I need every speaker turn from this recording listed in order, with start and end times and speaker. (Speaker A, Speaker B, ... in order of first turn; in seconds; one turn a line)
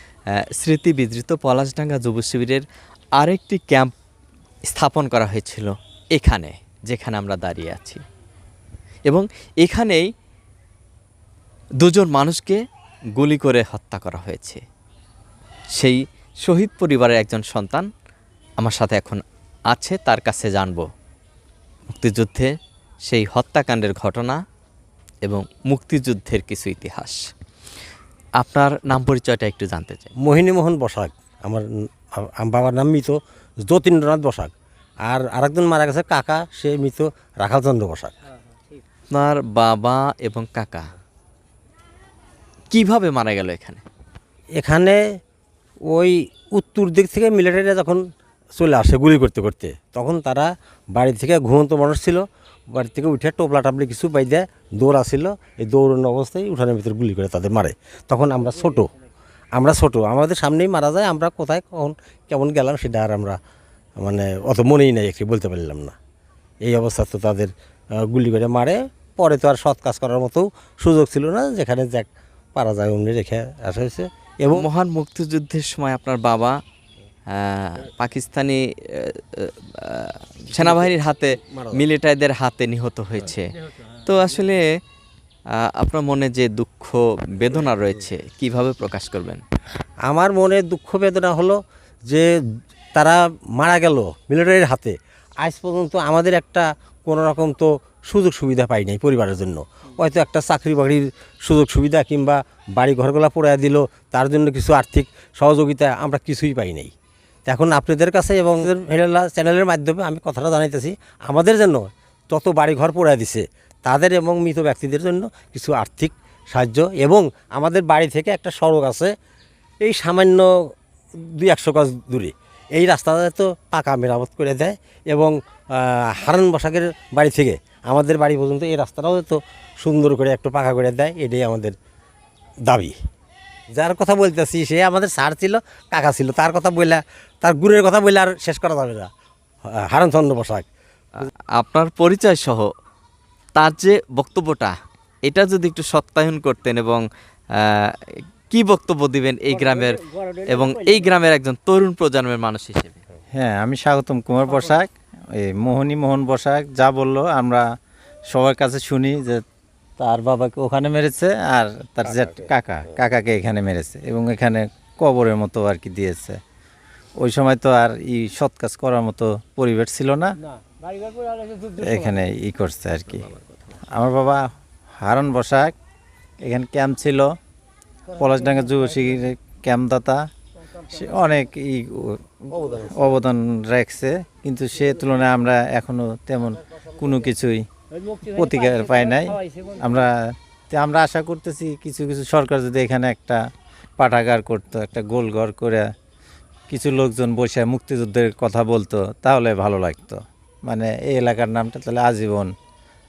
Speaker A: 0.3-2.6
Speaker A: 3.2-3.9
Speaker A: 4.7-8.0
Speaker A: 9.1-10.1
Speaker A: 11.8-12.6
Speaker A: 13.2-14.6
Speaker A: 15.8-17.9
Speaker A: 18.6-20.9
Speaker A: 21.9-22.5
Speaker A: 23.1-24.4
Speaker A: 25.2-27.3
Speaker A: 28.4-30.1
Speaker B: 30.2-34.5
Speaker B: 35.0-38.1
Speaker A: 39.1-40.9
Speaker A: 42.7-43.8
Speaker B: 44.6-45.2
Speaker B: 45.9-58.9
Speaker B: 59.5-63.4
Speaker B: 64.0-66.0
Speaker B: 66.6-74.7
Speaker A: 74.5-76.6
Speaker A: 77.3-84.8
Speaker B: 80.5-81.8
Speaker A: 85.5-89.4
Speaker B: 90.0-106.9
Speaker B: 107.5-119.1
Speaker B: 119.8-131.8
Speaker B: 132.7-133.0
Speaker B: 133.7-139.1
Speaker B: 139.7-140.7
Speaker A: 141.2-142.7
Speaker A: 143.6-147.0
Speaker A: 147.6-153.0
Speaker C: 153.4-157.6
Speaker C: 158.3-159.4
Speaker C: 160.0-166.4
Speaker C: 167.2-170.3
Speaker C: 171.7-173.3
Speaker C: 173.9-174.4
Speaker C: 175.0-175.7
Speaker C: 176.4-177.3
Speaker C: 178.1-180.2
Speaker C: 180.8-187.6
Speaker C: 188.2-190.2
Speaker C: 190.7-193.4
Speaker C: 194.0-195.8
Speaker C: 196.7-202.5